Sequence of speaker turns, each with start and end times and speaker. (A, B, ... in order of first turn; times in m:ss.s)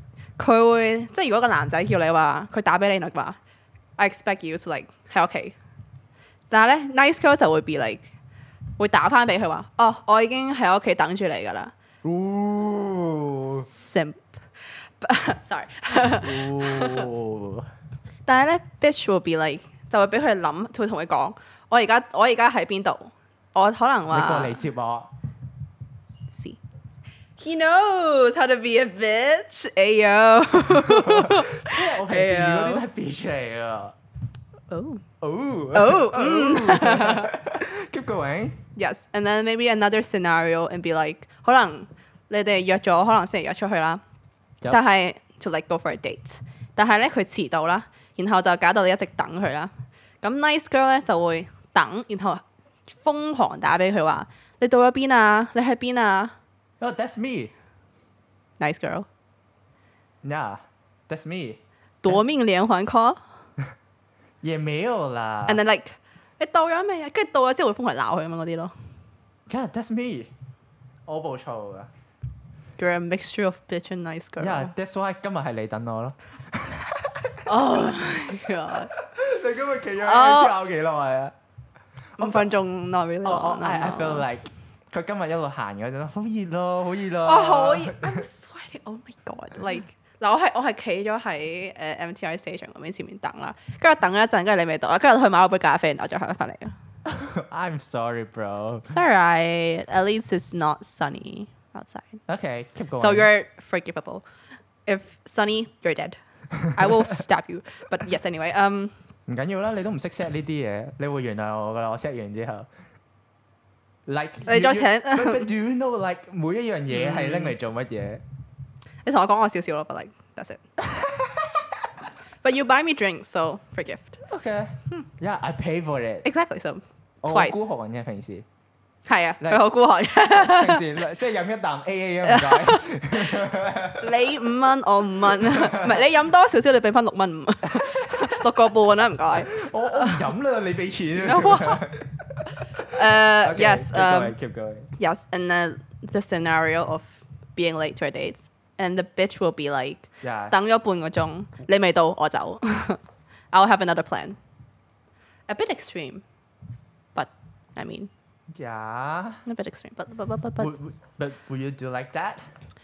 0:00.4-0:03.4 A
0:04.0-0:05.6 A
0:06.5-0:08.1 A
0:08.8-0:11.7 A
0:12.0-0:13.7 B
0:13.7-0:17.1 A
0:16.2-0:17.7 B
0:18.2-0:24.6 A
0:24.1-0:25.1 B
0:26.3-0:26.6 A
0:27.4-0:32.8 A
0:30.6-0:33.9 B
0:34.7-0:35.0 A
0:35.2-0:38.6 B
0:35.7-0:37.3 A
0:38.7-0:44.0 A
0:44.7-0:56.4 A
0:56.8-0:57.5 B
0:58.6-0:59.1 A
1:00.2-1:01.6 B
1:02.0-1:03.2 A
1:04.4-1:05.6 B
1:05.5-1:08.7 A
1:09.5-1:10.3 B
1:11.1-1:11.9 B
1:12.8-1:14.7 A
1:14.4-1:18.0 B
1:17.4-1:18.9 A
1:18.9-1:21.3 B
1:20.0-1:20.6 A
1:22.2-1:22.5 B
1:22.2-1:24.3 A
1:23.2-1:28.2 B
1:27.2-1:36.7 A
1:37.0-1:38.9 B
1:38.9-1:42.2 A
1:42.3-1:43.3 B
1:43.0-1:44.2 A
1:44.8-1:46.2 A
1:46.7-1:48.9 A
1:49.3-1:52.7 B
1:54.1-1:58.2 B
1:54.4-1:55.5 A
1:56.9-1:57.6 A
1:59.0-2:00.6 A
2:00.8-2:01.6 B
2:02.4-2:04.2 A
2:04.2-2:06.3 B
2:06.2-2:07.6 A
2:07.2-2:08.4 B
2:09.0-2:10.9 A
2:10.2-2:14.1 B
2:12.2-2:20.3 A
2:15.4-2:16.0 B
2:17.7-2:18.3 B
2:19.3-2:24.9 B
2:21.2-2:21.8 A
2:22.8-2:24.3 A
2:25.0-2:33.0 A
2:30.2-2:30.6 B
2:33.5-2:34.4 A
2:35.5-2:36.2 A
2:37.1-2:38.1 A
2:38.5-2:39.4 B
2:39.4-2:40.7 A
2:40.6-2:42.4 B